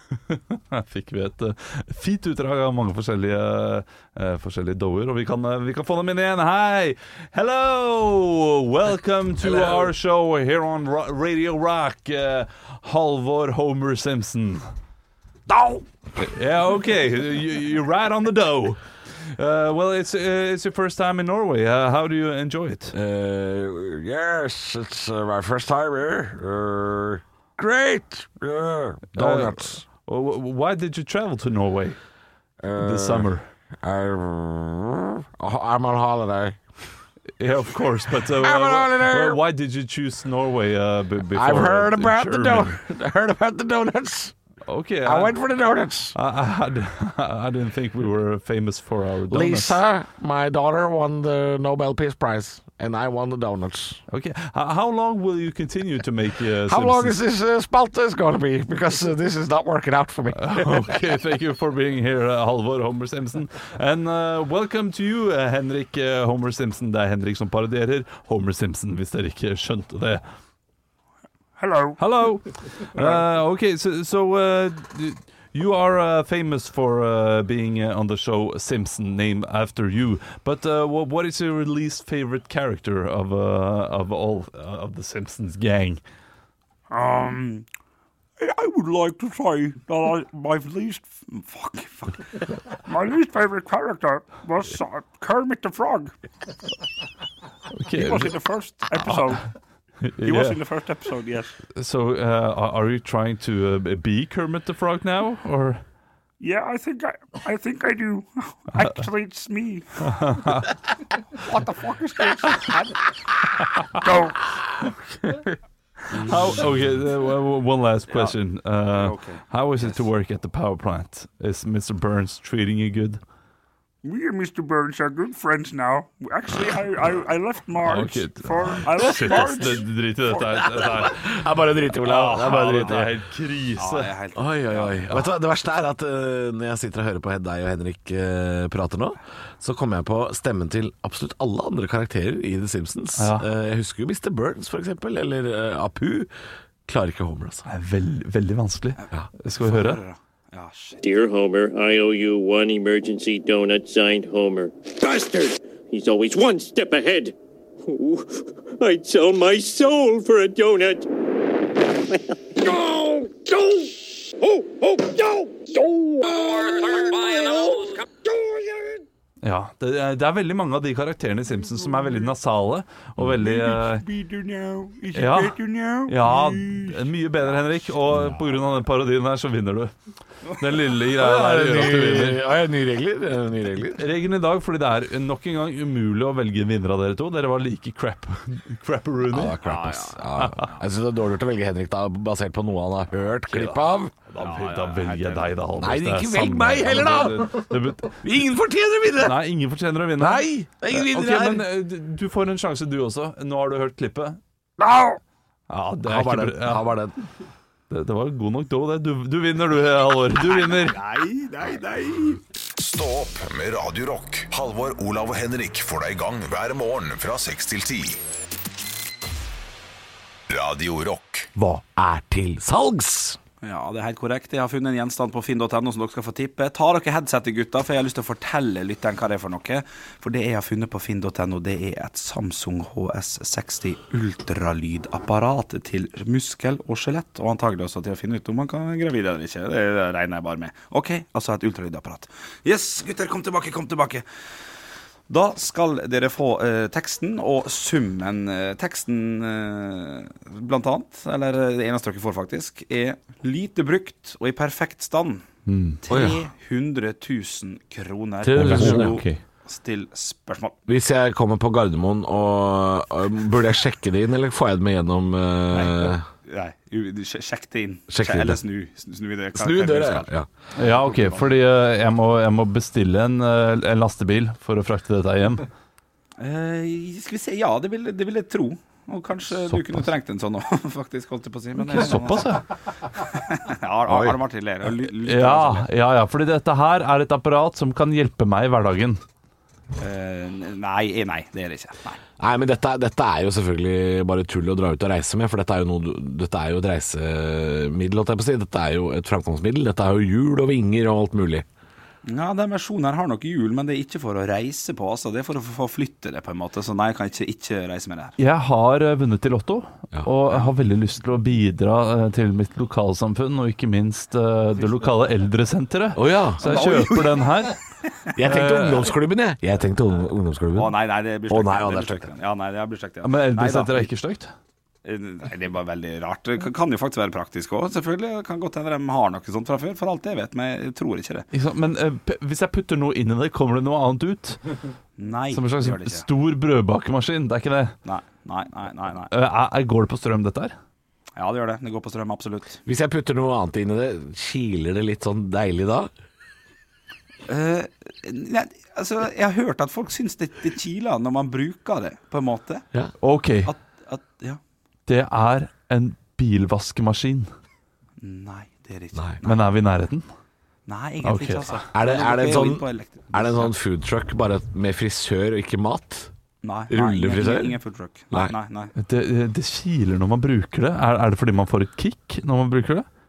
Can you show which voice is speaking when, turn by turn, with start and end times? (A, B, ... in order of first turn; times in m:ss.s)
0:00.3-0:14.7 A
0:09.5-0:09.8 B
0:15.5-0:15.8 B
0:16.2-0:18.8 A
0:19.3-0:22.9 A
0:22.9-0:29.8 B
0:29.2-0:32.0 A
0:32.6-0:33.3 B
0:32.8-0:33.4 A
0:33.8-0:36.6 B
0:37.4-0:42.8 A
0:38.4-0:39.4 B
0:41.3-0:44.3 B
0:44.7-0:45.4 A
0:45.0-0:46.1 B
0:46.1-0:49.8 A
0:49.3-0:54.0 B
0:54.1-0:57.2 A
0:56.7-1:00.9 B
1:00.4-1:10.2 A
1:11.6-1:12.0 C
1:12.0-1:26.0 A
1:26.9-1:27.6 C
1:28.4-1:31.1 C
1:31.2-1:32.2 D
1:32.8-1:36.1 C
1:37.7-1:38.4 A
1:37.9-1:39.5 C
1:39.0-1:39.3 A
1:40.0-1:40.6 A
1:40.2-1:41.5 C
1:41.7-1:45.8 A
1:46.4-1:50.2 C
1:50.0-1:50.8 A
1:51.4-1:53.1 C
1:54.0-1:54.5 C
1:56.1-2:03.2 A
1:58.1-1:58.4 D
1:58.9-2:00.0 D
2:04.0-2:11.0 C
2:07.8-2:11.3 A
2:10.9-2:13.0 B
2:12.0-2:14.1 A
2:13.8-2:15.0 D
2:14.3-2:26.3 B
2:23.2-2:23.4 A
2:26.9-2:27.6 B
2:27.7-2:30.0 A
2:29.6-2:31.0 D
2:31.0-2:37.3 E
2:37.8-2:41.1 E
2:42.6-2:49.0 C
2:46.9-2:48.0 E
2:49.4-2:54.0 A
2:51.8-2:52.2 C
2:53.5-2:56.1 C
2:55.1-2:59.9 A
2:55.4-2:55.7 D
3:00.5-3:02.5 A
3:01.2-3:04.0 B
3:03.8-3:09.6 A
3:09.3-3:14.1 B
3:09.6-3:10.2 D
3:10.4-3:10.7 A
3:13.5-3:18.3 A
3:14.4-3:15.5 D
3:15.8-3:19.4 B
3:19.2-3:24.4 A
3:20.2-3:21.7 B
3:24.8-3:25.2 B
3:25.7-3:26.9 A
3:26.0-3:27.2 B
3:27.9-3:31.0 A
3:30.4-3:32.4 D
3:32.8-3:38.2 F
3:40.5-3:41.5 F
3:41.6-3:43.4 B
3:43.6-4:04.2 D
4:05.3-4:15.4 D
4:15.6-4:16.0 A
4:16.0-4:20.8 D
4:16.1-4:16.4 B
4:18.4-4:19.4 B
4:18.6-4:19.3 A
4:20.9-4:26.2 B
4:25.7-4:30.3 D
4:28.1-4:28.6 B
4:29.5-4:30.5 B
4:30.8-4:35.7 A
4:31.0-4:31.4 D
4:36.4-4:45.8 D
4:39.6-4:40.1 A
4:41.8-4:42.6 A
4:44.1-4:44.4 B
4:45.2-4:49.2 A
4:50.0-4:52.2 D
4:52.4-5:01.6 B
5:02.2-5:08.4 D
5:08.4-5:17.8 A
5:16.1-5:16.7 B
5:16.6-5:17.4 D
5:18.3-5:20.9 B
5:18.4-5:19.1 A
5:20.7-5:24.1 D
5:21.5-5:22.3 B
5:23.2-5:24.5 A
5:25.0-5:31.4 D
5:31.5-5:34.6 A
5:35.2-5:36.2 D
5:35.5-5:37.9 A
5:38.0-5:39.3 D
5:39.3-5:40.7 A
5:41.4-5:42.8 D
5:42.8-5:46.1 B
5:47.5-5:52.8 D
5:53.2-5:53.7 A
5:53.6-5:54.6 D
5:55.1-5:57.5 A
5:58.2-5:59.6 D
5:59.1-5:59.4 B
5:59.4-6:00.2 A
6:00.9-6:03.7 D
6:01.2-6:01.8 A
6:01.9-6:06.3 B
6:06.6-6:08.9 D
6:06.9-6:07.8 B
6:09.0-6:13.0 A